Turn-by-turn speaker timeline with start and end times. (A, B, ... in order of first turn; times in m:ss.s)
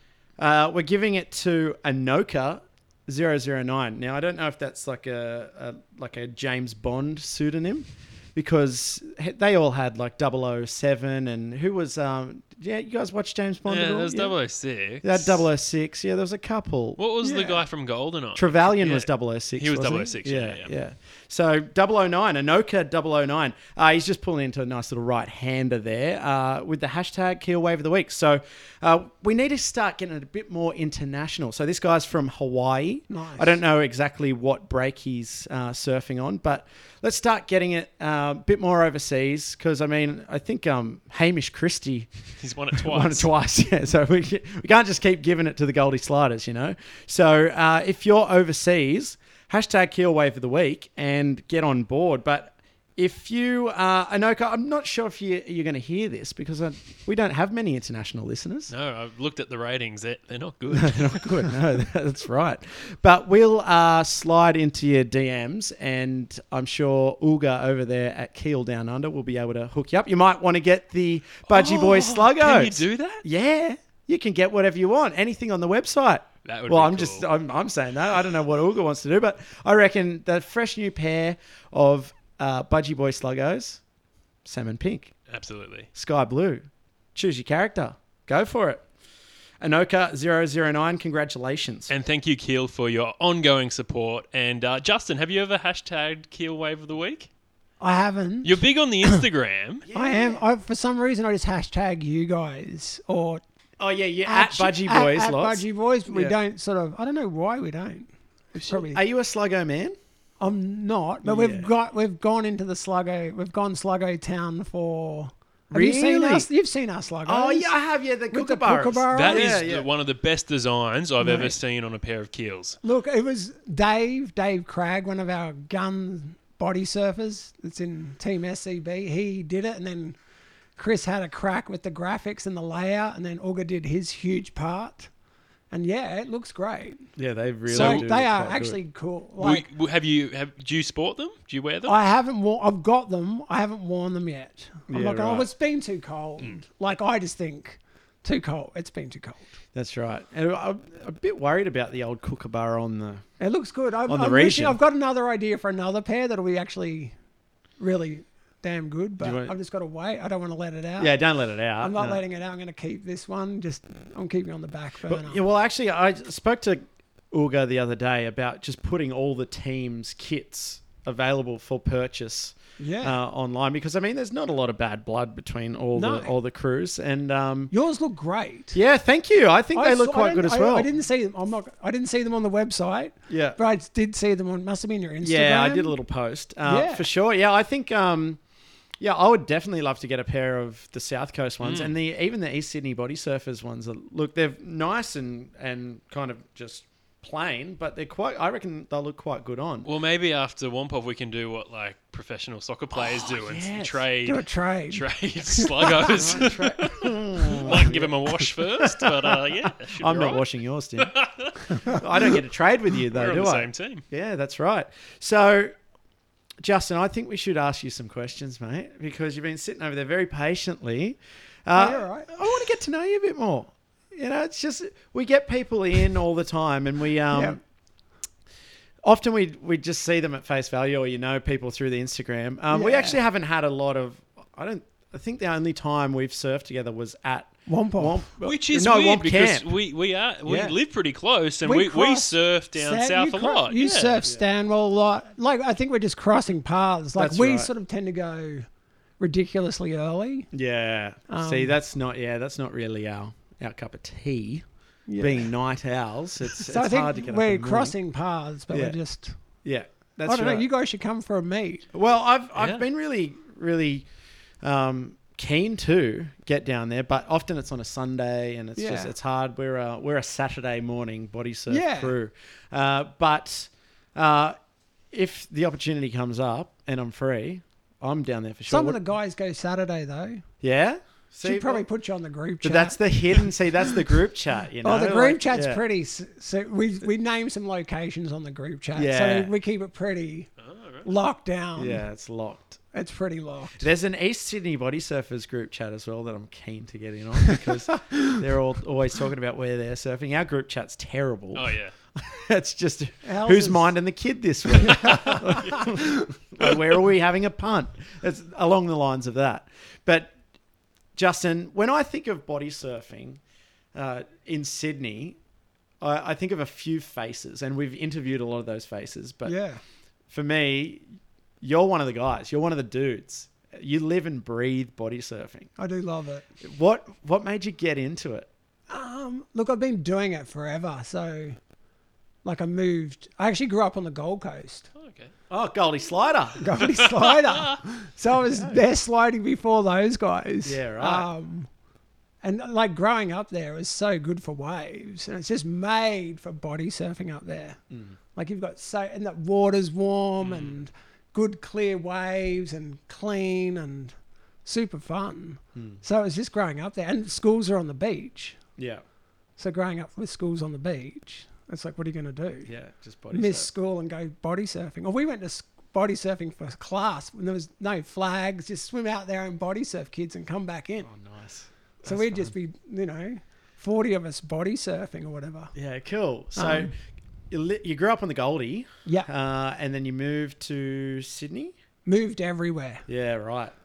0:00.4-0:14.3 A
0:13.6-0:15.4 B
0:15.0-0:17.0 A
0:17.0-0:20.7 B
0:17.2-0:17.6 C
0:18.4-0:42.1 A
0:33.1-0:33.6 C
0:42.4-0:43.3 B
0:42.7-0:58.7 A
0:58.7-1:01.6 B
1:00.8-1:23.8 A
1:11.5-1:13.2 B
1:16.4-1:17.3 B
1:24.4-1:25.1 A
1:25.3-1:25.9 B
1:25.9-1:28.8 A
1:29.6-1:31.9 A
1:31.9-1:37.3 B
1:37.8-1:39.2 C
1:38.4-1:39.9 B
1:39.8-1:40.4 A
1:39.9-1:43.4 C
1:43.8-1:46.4 A
1:44.2-1:49.0 C
1:48.6-1:49.9 A
1:50.4-1:57.7 C
1:51.2-1:51.7 A
1:55.7-1:56.5 A
1:57.2-1:59.9 A
1:58.3-1:59.6 C
1:59.1-2:02.8 B
2:01.2-2:01.6 C
2:02.8-2:10.2 C
2:10.8-2:15.1 C
2:15.7-2:17.1 C
2:17.2-2:18.8 A
2:17.7-2:19.6 C
2:17.7-2:18.0 B
2:19.4-2:21.9 B
2:21.8-2:29.6 C
2:24.9-2:25.5 A
2:29.7-2:33.2 A
2:33.4-2:37.1 C
2:34.1-2:34.8 A
2:37.8-2:41.1 C
2:39.2-2:39.5 A
2:41.0-2:42.2 A
2:41.8-2:45.4 C
2:45.1-2:57.7 A
2:52.8-2:53.2 C
2:55.9-2:56.3 C
2:57.7-2:58.8 C
2:58.7-3:00.9 A
2:59.7-3:05.9 C
3:03.3-3:03.6 A
3:05.2-3:08.4 A
3:06.6-3:07.0 C
3:09.0-3:19.9 A
3:11.6-3:11.9 B
3:19.8-3:30.4 B
3:23.1-3:24.0 A
3:24.2-3:26.1 C
3:25.9-3:31.1 A
3:31.0-3:31.8 B
3:31.7-3:35.7 A
3:33.1-3:34.0 B
3:36.6-3:47.6 A
3:41.7-3:42.3 C
3:47.3-3:47.6 C
3:49.0-3:59.7 A
3:52.7-3:53.2 C
3:57.7-3:58.2 C
3:58.4-4:04.2 B
4:00.4-4:00.8 A
4:01.6-4:08.7 C
4:07.2-4:07.7 A
4:09.2-4:10.5 C
4:10.5-4:14.6 A
4:11.3-4:11.7 C
4:15.1-4:15.5 C
4:15.2-4:17.9 A
4:16.6-4:19.4 C
4:18.7-4:19.0 A
4:19.6-4:20.6 A
4:20.2-4:21.8 C
4:21.9-4:24.1 A
4:22.6-4:22.8 B
4:24.6-4:34.6 A
4:28.8-4:29.1 C
4:31.7-4:32.1 C
4:35.1-4:39.0 A
4:38.7-4:40.4 C
4:40.6-4:41.8 A
4:41.4-4:43.5 C
4:42.6-4:45.8 A
4:44.8-4:50.5 C
4:48.9-4:49.5 A
4:50.6-4:51.1 B
4:51.0-4:52.0 C
4:51.8-4:52.8 A
4:52.9-4:53.9 C
4:53.8-5:10.4 A
5:01.5-5:01.9 B
5:03.2-5:03.9 C
5:04.8-5:05.4 C
5:05.0-5:05.3 B
5:11.2-5:13.4 A
5:13.9-5:15.4 A
5:16.0-5:19.5 A
5:19.4-5:19.8 C
5:20.3-5:21.0 A
5:21.6-5:25.7 A
5:25.8-5:26.5 C
5:26.6-5:28.5 A
5:28.9-5:31.6 C
5:32.4-5:34.9 C
5:34.9-5:35.3 B
5:35.5-5:36.7 A
5:36.6-5:41.7 C
5:36.8-5:37.8 B
5:38.5-5:38.8 A
5:40.6-5:41.3 A
5:42.4-5:47.8 C
5:48.3-5:54.1 C
5:50.4-5:50.7 B
5:54.6-5:58.6 C
5:55.8-5:56.0 A
5:58.8-5:59.0 A
5:59.6-6:02.7 C
6:02.6-6:03.7 A
6:03.3-6:11.1 C
6:11.0-6:12.5 A
6:12.0-6:15.7 C
6:15.7-6:16.9 A
6:16.6-6:16.9 C
6:17.5-6:21.7 A
6:22.0-6:23.0 C
6:23.1-6:23.7 A